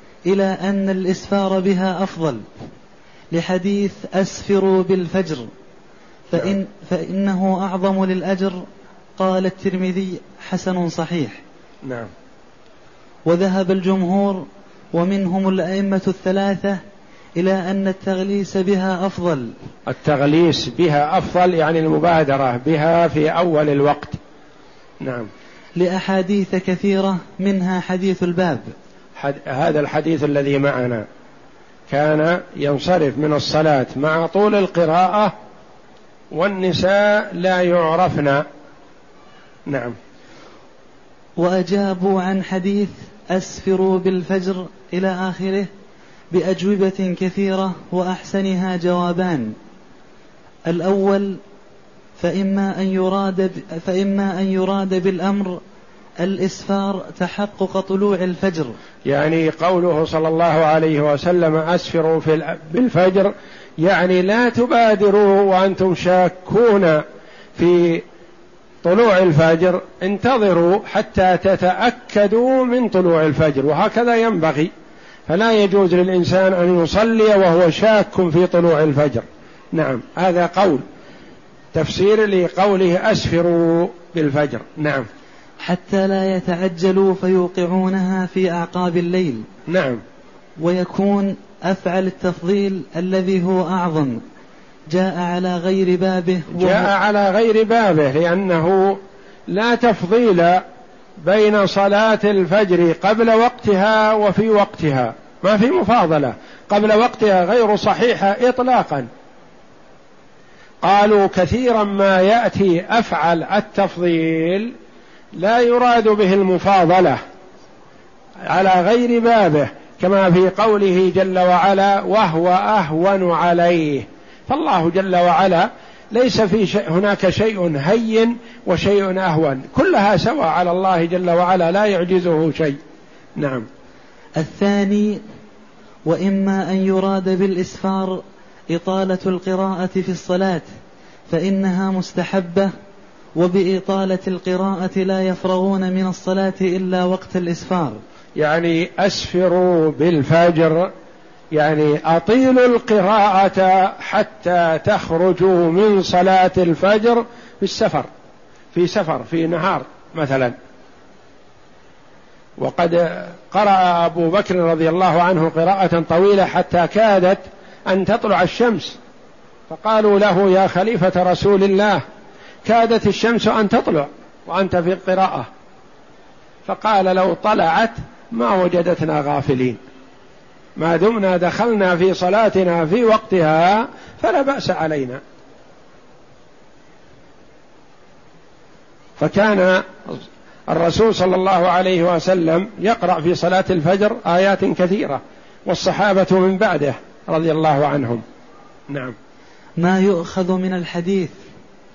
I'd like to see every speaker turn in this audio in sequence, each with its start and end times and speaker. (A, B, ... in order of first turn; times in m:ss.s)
0:00.2-0:02.4 A
0:03.3-0:05.5 A
0:06.3-0:08.6 A
0:09.2-0:11.4 A
0:11.8-0:12.1 B
0:13.2-0:16.8 A
0:17.4-0:19.5 A
0:19.9-0:24.2 B
0:25.0-0:25.3 B
0:25.8-0:28.7 A
0:29.2-0:31.0 B
0:31.9-0:35.3 B
0:36.3-0:38.4 B
0:39.7-0:40.0 B
0:41.4-0:45.7 A
0:46.3-0:49.5 A
0:50.7-0:51.4 A
0:52.2-0:55.6 A
0:56.2-0:58.7 A
0:59.0-1:07.0 B
1:07.6-1:08.0 B
1:08.8-1:14.7 B
1:15.3-1:20.8 B
1:21.7-1:25.0 B
1:25.6-1:29.4 A
1:29.7-1:30.0 B
1:30.6-1:34.2 A
1:34.9-1:36.9 A
1:36.5-1:40.6 B
1:41.2-1:49.1 B
1:50.8-1:54.7 B
1:55.4-1:57.2 B
1:58.5-2:12.8 B
2:13.4-2:13.7 B
2:14.4-2:15.2 A
2:16.0-2:20.7 A
2:21.3-2:22.7 A
2:23.4-2:28.0 A
2:28.4-2:30.9 B
2:31.5-2:38.1 B
2:38.7-2:40.5 B
2:42.6-2:49.0 B
2:49.7-2:52.0 B
2:52.6-2:55.5 B
2:56.6-2:59.8 B
3:00.8-3:05.2 B
3:09.2-3:18.2 B
3:18.9-3:19.1 B
3:19.8-3:21.3 A